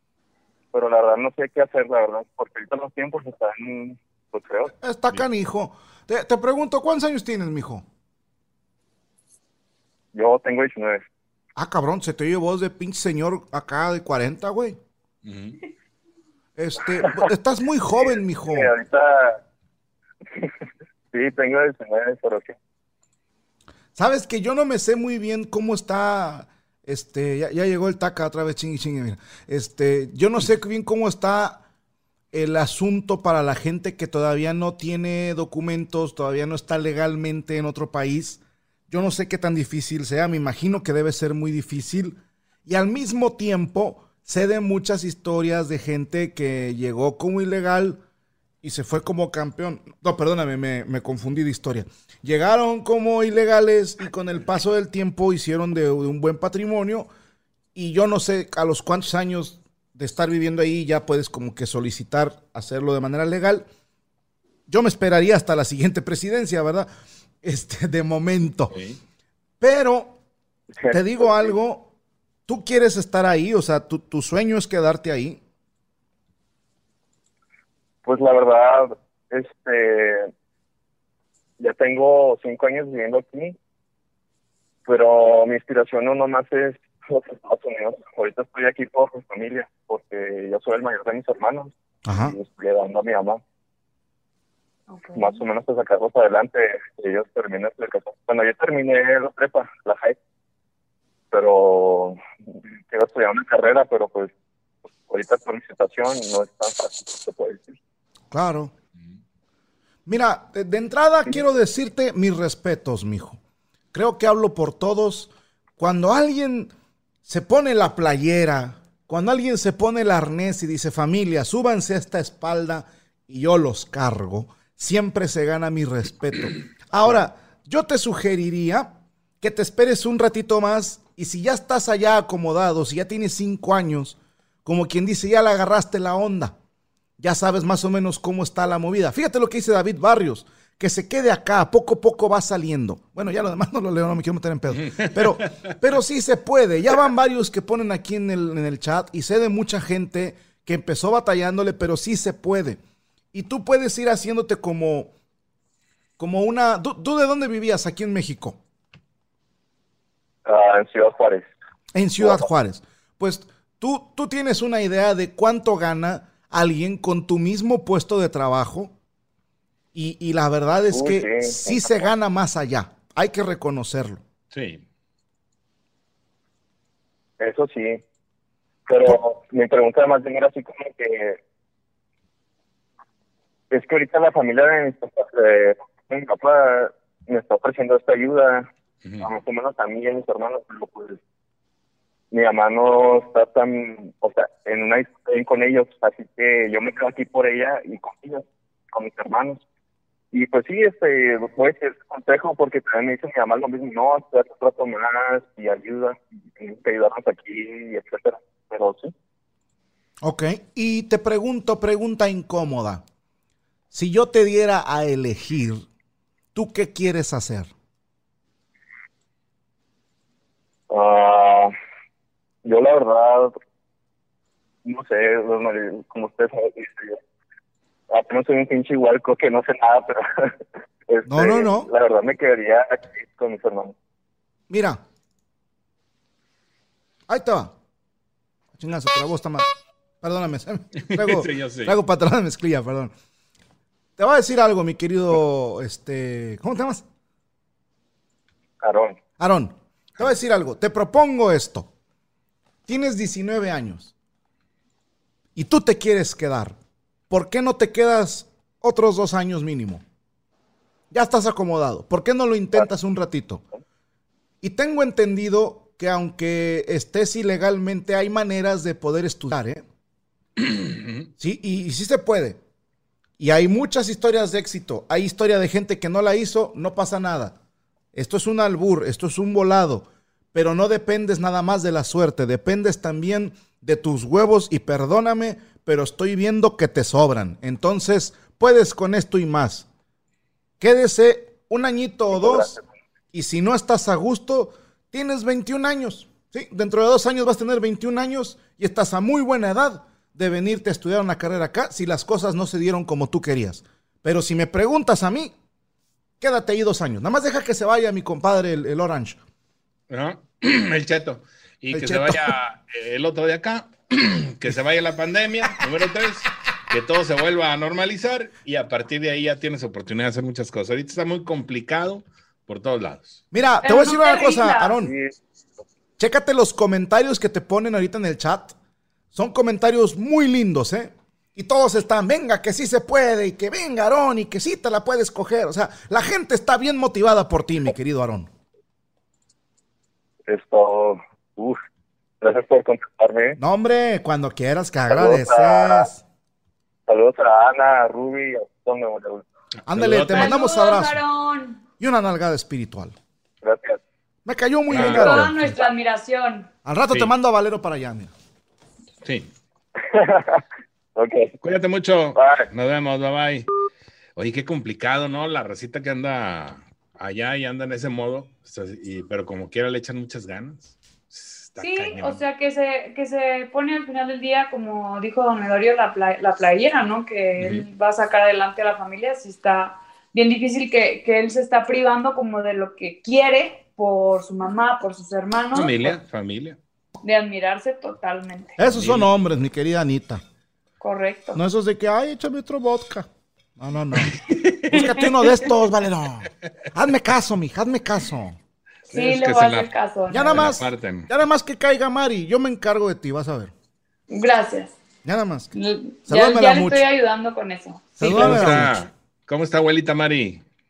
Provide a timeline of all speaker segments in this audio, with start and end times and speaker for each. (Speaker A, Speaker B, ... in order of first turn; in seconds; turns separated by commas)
Speaker A: 0.7-4.7, Speaker B: 4.8-7.8, Speaker A: 10.1-11.1, Speaker B: 11.6-14.8, Speaker C: 15.2-15.6, Speaker B: 16.6-18.7, Speaker A: 16.9-17.3, Speaker A: 18.0-19.4, Speaker A: 21.1-22.6, Speaker B: 24.0-31.6, Speaker B: 32.3-48.0, Speaker B: 48.6-57.1, Speaker B: 57.8-63.7, Speaker B: 64.7-66.9, Speaker B: 67.4-68.8, Speaker C: 68.7-69.0, Speaker B: 69.6-70.2, Speaker A: 70.8-71.5, Speaker B: 70.9-71.9, Speaker B: 72.5-75.4, Speaker A: 78.0-80.3, Speaker A: 81.6-83.6, Speaker A: 84.9-93.4, Speaker B: 92.0-92.4, Speaker D: 94.9-95.4, Speaker A: 95.2-100.2, Speaker A: 101.3-104.3, Speaker A: 105.1-107.7, Speaker B: 108.3-108.7, Speaker B: 110.1-113.4, Speaker B: 113.9-116.7, Speaker B: 117.3-136.6, Speaker B: 137.2-152.8, Speaker C: 144.9-145.5, Speaker B: 153.3-155.1, Speaker B: 156.2-158.6, Speaker A: 160.5-161.5, Speaker B: 161.9-168.9, Speaker A: 162.2-162.4, Speaker B: 169.9-174.2, Speaker A: 170.9-172.0, Speaker C: 174.5-174.8, Speaker A: 177.4-178.0, Speaker A: 178.9-181.4, Speaker A: 183.7-188.7, Speaker A: 189.2-191.2, Speaker A: 192.3-199.6, Speaker A: 200.3-209.1, Speaker B: 210.2-213.0, Speaker B: 213.9-215.9, Speaker B: 216.6-217.7, Speaker A: 220.9-221.7, Speaker A: 222.6-223.6, Speaker A: 224.8-227.2, Speaker A: 228.1-230.6, Speaker A: 231.1-233.9, Speaker B: 231.3-231.9, Speaker B: 234.7-235.0, Speaker B: 237.3-237.7, Speaker B: 238.8-239.7, Speaker B: 240.2-243.1, Speaker C: 241.0-241.9, Speaker B: 244.2-247.0, Speaker A: 248.8-249.2, Speaker B: 249.4-251.9, Speaker B: 252.9-254.1, Speaker B: 255.6-256.8, Speaker B: 257.3-260.0, Speaker B: 261.1-263.6, Speaker B: 264.6-269.8, Speaker C: 270.6-271.3, Speaker B: 271.4-272.6, Speaker B: 273.4-277.6, Speaker B: 278.1-289.9, Speaker B: 290.8-292.7, Speaker A: 292.3-292.8, Speaker B: 293.3-305.5, Speaker B: 306.4-309.4, Speaker C: 310.1-323.4, Speaker B: 311.9-312.6, Speaker B: 323.5-325.1, Speaker D: 323.8-325.0, Speaker A: 325.0-325.3, Speaker B: 326.2-328.8, Speaker B: 329.3-338.5, Speaker A: 340.5-341.8, Speaker A: 342.4-343.6, Speaker B: 343.6-346.2, Speaker A: 345.1-346.1, Speaker A: 347.1-349.5, Speaker B: 349.9-351.2, Speaker C: 349.9-350.5, Speaker D: 350.3-351.8, Speaker B: 352.0-353.1, Speaker A: 353.6-354.0, Speaker B: 354.5-355.7, Speaker C: 354.9-355.6, Speaker D: 354.9-356.7, Speaker B: 356.9-358.3, Speaker C: 359.2-359.5, Speaker A: 360.0-360.6, Speaker A: 361.1-361.6, Speaker C: 361.6-363.7, Speaker A: 362.4-362.7, Speaker C: 364.4-372.4, Speaker D: 371.8-386.2, Speaker C: 377.6-377.9, Speaker C: 385.7-386.8, Speaker D: 387.2-388.8, Speaker B: 388.8-390.4, Speaker C: 388.9-389.3, Speaker D: 391.0-391.6, Speaker B: 391.6-398.6, Speaker C: 394.4-394.9, Speaker D: 394.9-395.6, Speaker C: 399.1-399.9, Speaker D: 399.1-400.7, Speaker B: 400.3-403.7, Speaker C: 400.5-401.3, Speaker D: 404.3-404.9, Speaker B: 405.2-405.7, Speaker D: 405.8-408.7, Speaker B: 406.3-407.0, Speaker B: 408.2-409.0, Speaker C: 408.2-410.6